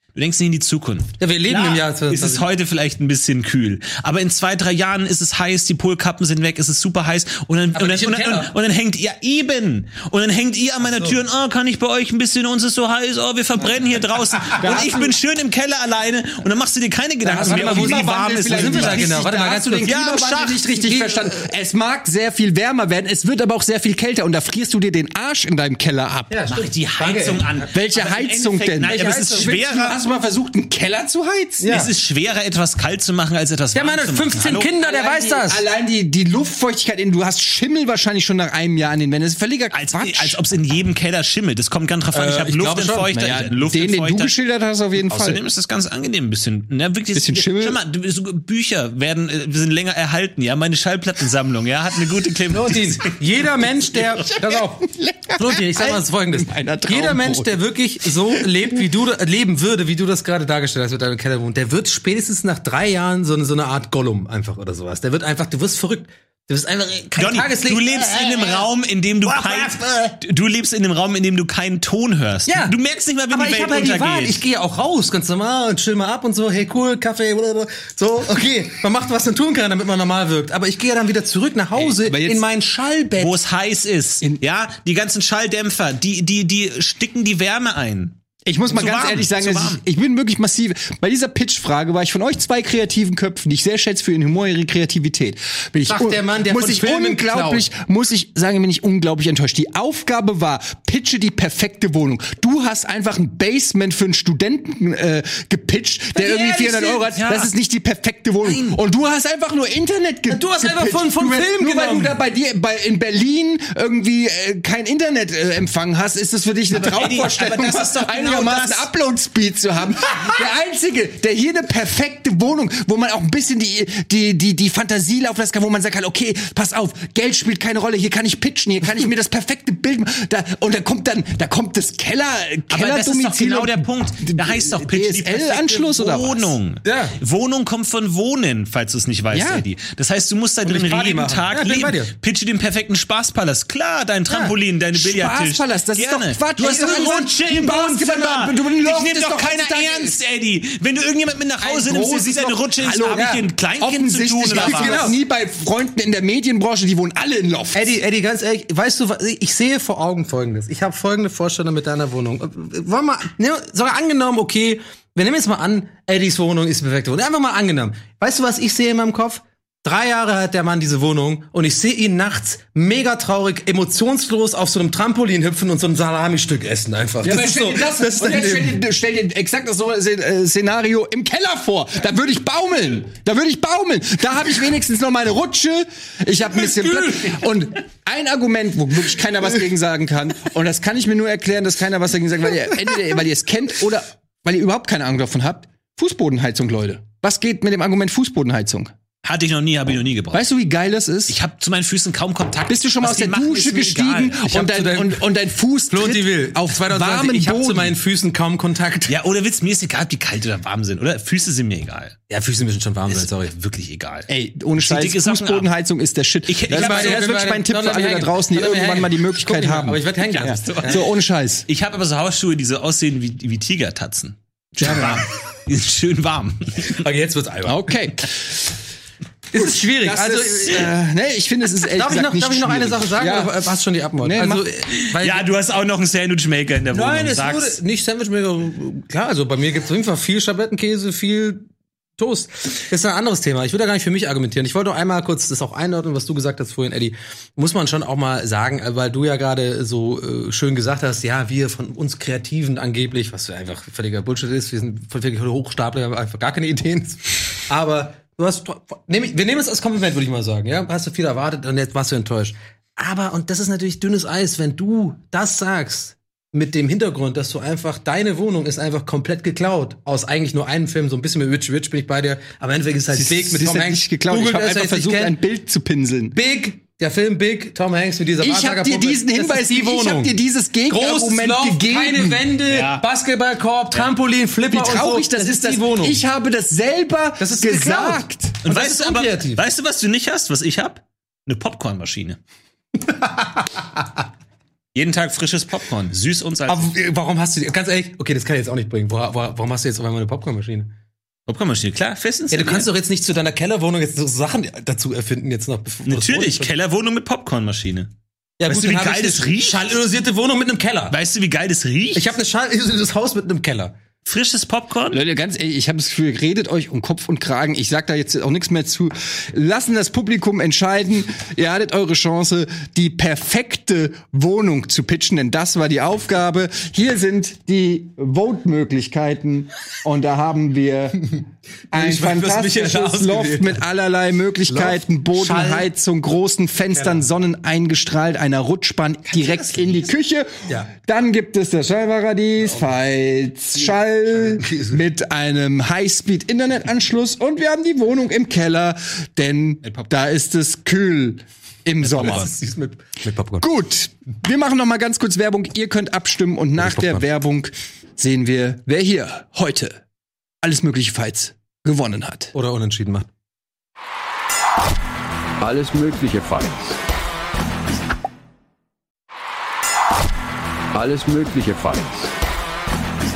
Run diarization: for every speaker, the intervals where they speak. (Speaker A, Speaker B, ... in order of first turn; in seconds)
Speaker A: 0.1-19.2, 19.8-20.6, 26.5-30.0, 31.7-34.7, 39.7-44.3, 45.0-53.2, 67.2-74.4, 83.2-89.8, 106.5-107.5, 108.4-108.8, 116.7-118.9, 132.7-155.1, 199.2-200.4, 201.3-204.5, 209.1-212.2, 213.1-215.7, 216.5-217.3, 220.6-221.0, 221.7-227.0, 235.0-237.8, 282.7-283.0, 288.6-292.4, 294.9-296.9, 301.5-302.9, 306.1-308.1, 308.7-309.8, 311.1-312.3, 314.2-315.2
Speaker B: 1.2-2.5, 7.7-8.5, 10.9-11.2, 17.3-19.9, 20.7-21.4, 26.3-27.7, 28.8-29.5, 31.6-31.9, 33.7-35.6, 42.1-43.1, 52.5-54.9, 55.4-68.7, 69.2-70.2, 72.5-72.8, 73.3-83.3, 95.8-97.7, 106.2-107.1, 110.3-112.1, 136.8-137.1, 140.6-142.1, 144.3-144.5, 146.6-147.8, 151.6-152.5, 153.1-153.4, 154.5-155.2, 157.7-178.8, 204.5-205.2, 205.9-209.1, 212.3-213.5, 216.7-221.0, 226.9-227.9, 229.5-230.9, 231.9-235.5, 236.9-241.7, 242.2-275.4, 276.3-280.3, 280.9-286.2, 287.4-289.6, 293.0-293.8, 296.7-300.9, 302.5-306.7, 308.6-311.1, 312.1-313.9, 331.9-333.8, 334.7-335.9, 336.9-337.2, 344.5-345.0, 352.0-353.6, 362.5-363.3
Speaker C: 14.4-15.1, 17.3-26.4, 27.7-31.7, 34.8-40.4, 43.1-45.4, 47.1-47.8, 54.2-57.6, 82.0-82.4, 88.5-136.5, 139.3-139.6, 144.9-150.2, 152.7-157.9, 177.2-198.9, 200.3-201.4, 202.7-207.9, 214.3-221.7, 227.7-228.6, 229.5-233.6, 234.2-234.6, 273.1-276.4, 278.4-282.5, 284.7-288.6, 315.1-331.4, 331.9-352.5, 353.6-360.0, 360.6-362.5
Speaker D: 365.6-367.0, 370.9-372.3